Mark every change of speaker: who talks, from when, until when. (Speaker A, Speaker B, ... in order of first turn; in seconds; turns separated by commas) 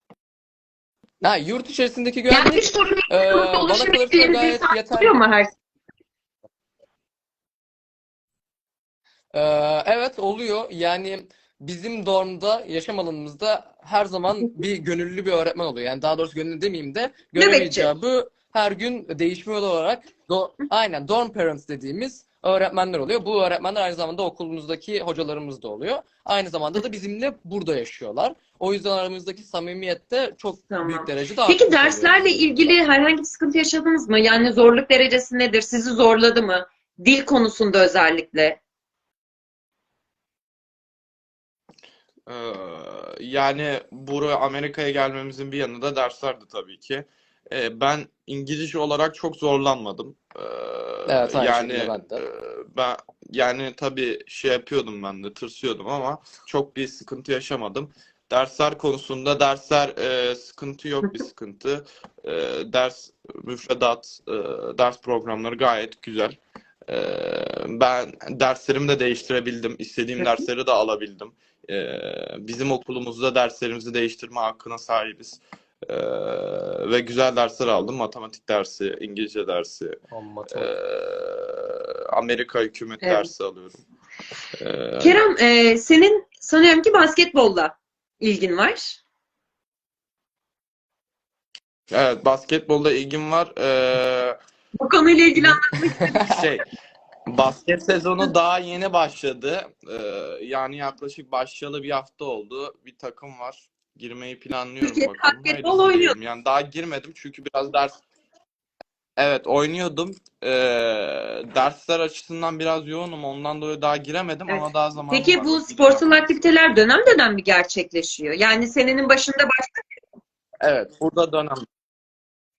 Speaker A: 1.2-5.2, Speaker B: 2.3-5.6, Speaker A: 9.3-32.8, Speaker B: 17.4-17.9, Speaker B: 30.7-38.6, Speaker C: 42.3-83.8, Speaker A: 51.1-52.2, Speaker B: 70.2-70.5, Speaker A: 80.1-80.7, Speaker B: 83.0-83.3, Speaker C: 84.6-85.2, Speaker B: 85.0-89.0, Speaker C: 91.9-94.4, Speaker B: 94.8-96.4, Speaker A: 96.0-96.4, Speaker C: 96.2-96.6, Speaker C: 97.3-108.0, Speaker B: 104.8-106.2, Speaker C: 109.2-116.7, Speaker B: 114.5-119.8, Speaker C: 120.6-121.7